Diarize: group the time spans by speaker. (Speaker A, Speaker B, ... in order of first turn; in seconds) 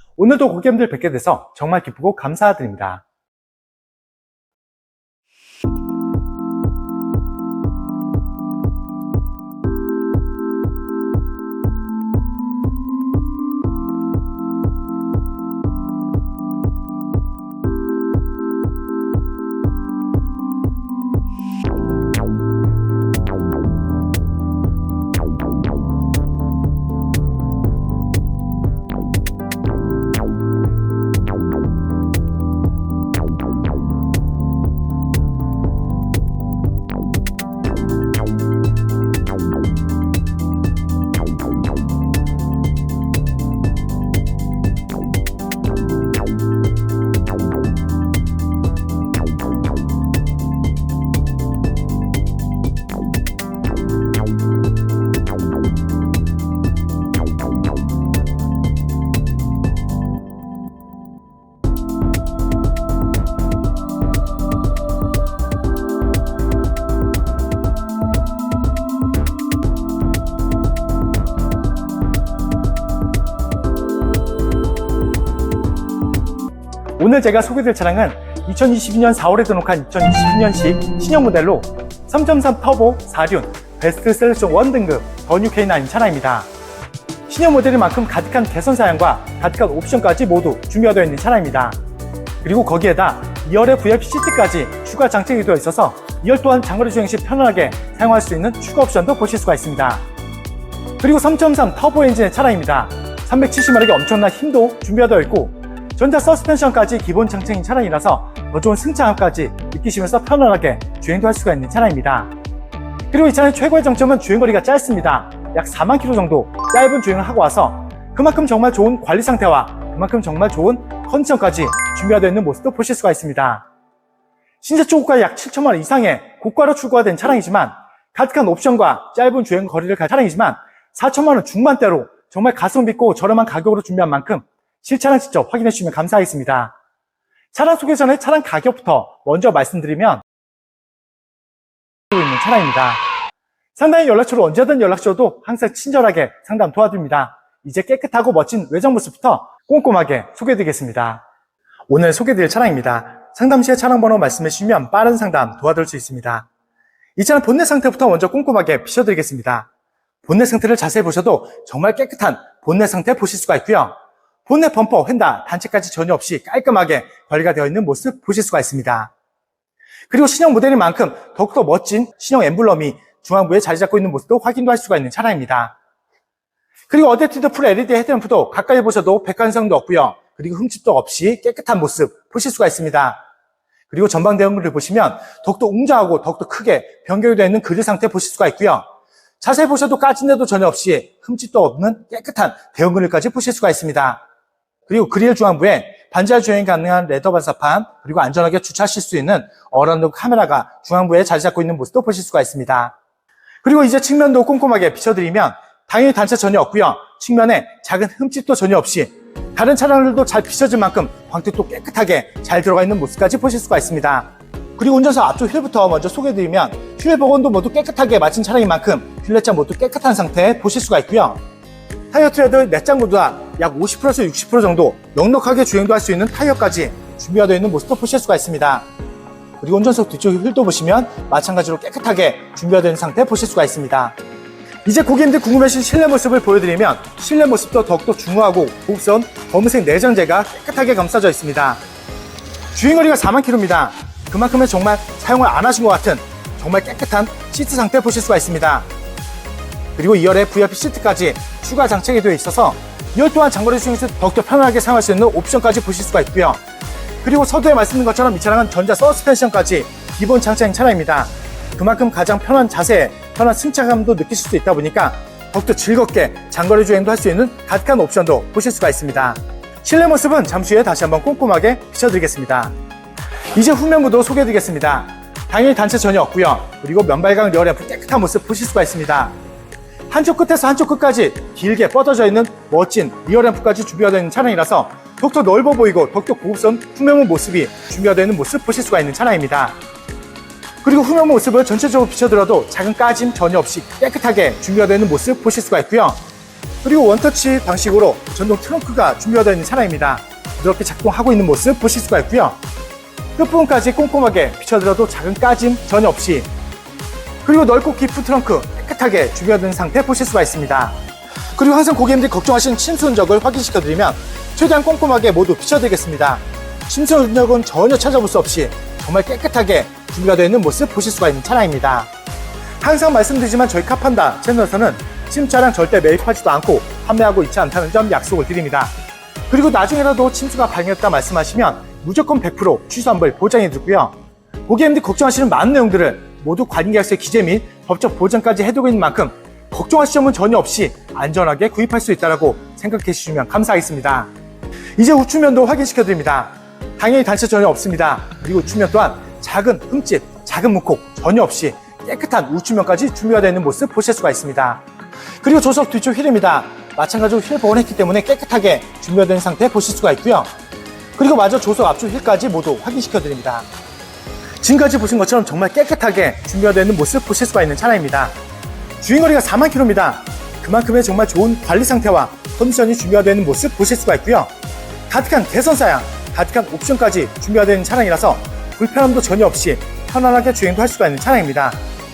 Speaker A: 0.2-3.0, 77.0-86.5, 87.3-91.8, 92.4-100.0, 101.0-112.3, 113.1-123.6, 124.6-136.7, 137.5-140.2, 142.1-143.0, 143.7-151.2, 151.9-156.5, 157.2-159.7, 160.2-169.1, 170.1-175.8, 176.9-183.2, 183.9-188.8, 189.4-194.2, 194.9-202.9, 203.6-221.4, 222.1-228.8, 229.6-234.2, 234.8-241.8, 242.7-248.9, 249.9-256.6, 257.2-272.7, 273.5-279.3, 280.1-289.8, 290.8-296.2, 296.8-302.6, 303.4-306.5, 307.4-311.0, 311.5-322.1, 322.8-328.9, 329.5-334.1, 334.7-344.3, 345.0-354.8, 355.4-360.5, 361.2-363.7, 364.6-368.3, 369.0-374.5, 375.1-381.8